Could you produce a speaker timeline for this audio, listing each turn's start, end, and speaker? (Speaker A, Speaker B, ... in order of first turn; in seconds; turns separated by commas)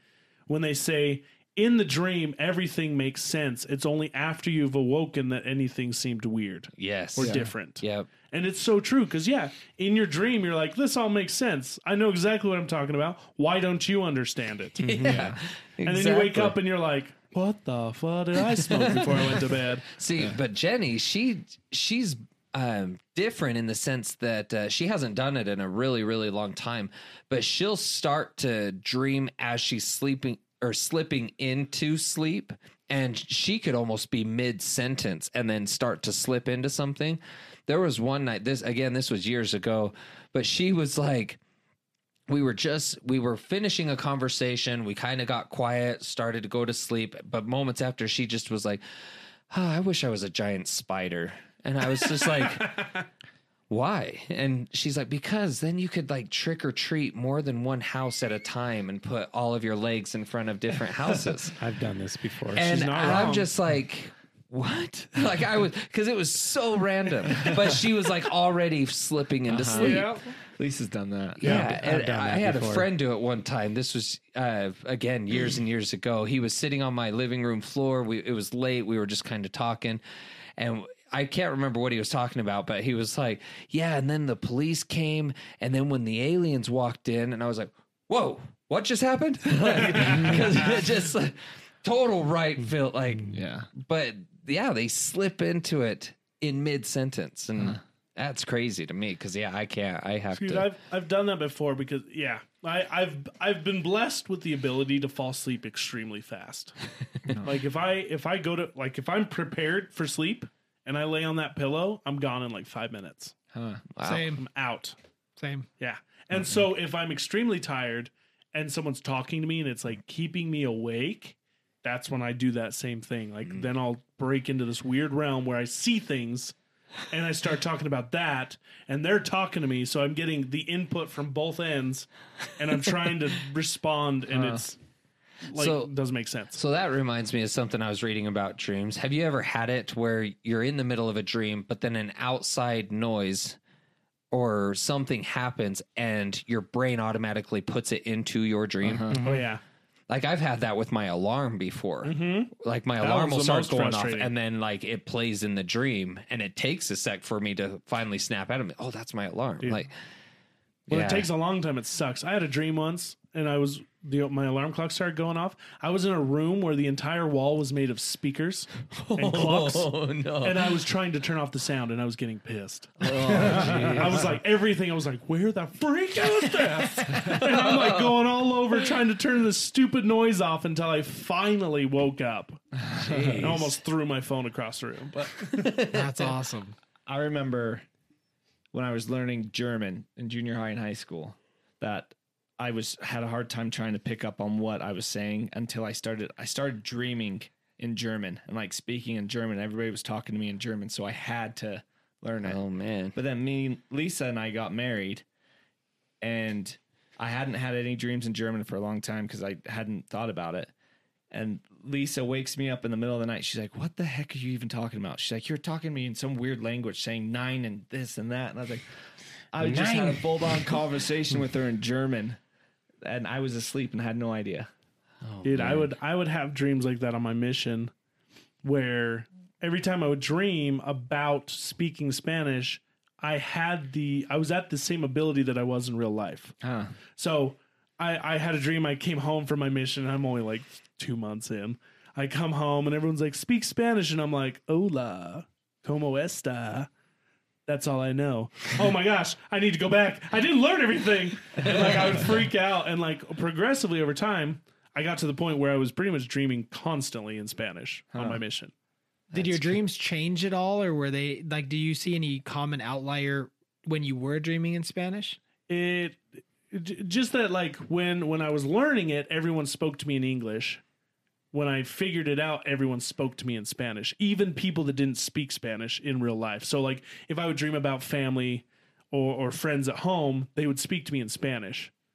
Speaker A: 0.5-15.1, Speaker B: 6.8-8.1, Speaker C: 7.2-7.5, Speaker B: 14.8-16.6, Speaker C: 15.0-15.4, Speaker A: 15.8-19.9, Speaker B: 18.6-41.4, Speaker B: 42.3-48.8, Speaker B: 49.5-52.8, Speaker A: 52.2-52.9, Speaker B: 53.7-61.5, Speaker D: 61.6-62.9, Speaker B: 62.5-70.1, Speaker A: 62.6-63.5, Speaker C: 69.5-71.6, Speaker A: 69.7-70.2, Speaker B: 71.4-80.0, Speaker D: 71.4-72.9, Speaker B: 80.6-100.7, Speaker C: 93.3-93.7, Speaker A: 100.3-106.7, Speaker C: 107.2-107.6, Speaker A: 107.4-113.3, Speaker C: 113.5-113.9, Speaker B: 113.9-114.3, Speaker E: 114.0-114.4, Speaker A: 114.3-114.9, Speaker E: 115.4-115.7, Speaker A: 115.8-126.5, Speaker A: 127.1-134.8, Speaker C: 134.3-134.6, Speaker A: 135.5-136.6, Speaker B: 135.5-135.9, Speaker B: 136.5-143.6, Speaker B: 144.3-149.1, Speaker C: 148.8-149.2, Speaker D: 149.1-149.5, Speaker A: 149.2-149.6, Speaker B: 150.1-159.9, Speaker A: 152.0-154.3, Speaker B: 160.9-161.3, Speaker A: 160.9-169.9, Speaker B: 168.9-170.7, Speaker A: 170.4-173.0, Speaker B: 173.0-174.3, Speaker D: 173.3-174.0, Speaker A: 173.9-182.6, Speaker B: 176.6-178.2, Speaker C: 182.8-183.6, Speaker B: 183.0-183.7, Speaker A: 183.4-185.3, Speaker B: 185.2-186.3, Speaker E: 185.9-186.8, Speaker C: 187.1-187.8, Speaker C: 188.7-202.6, Speaker B: 202.4-203.2, Speaker C: 203.1-205.2, Speaker C: 206.2-210.7, Speaker C: 211.3-218.8, Speaker C: 219.5-222.4, Speaker D: 219.6-220.4, Speaker C: 223.0-224.7, Speaker B: 225.2-225.9, Speaker A: 225.4-227.9, Speaker A: 228.6-236.6, Speaker C: 236.6-236.9, Speaker A: 237.2-246.9, Speaker A: 247.7-258.7, Speaker C: 258.1-258.4, Speaker E: 259.3-265.4, Speaker A: 265.7-270.8, Speaker A: 271.5-281.9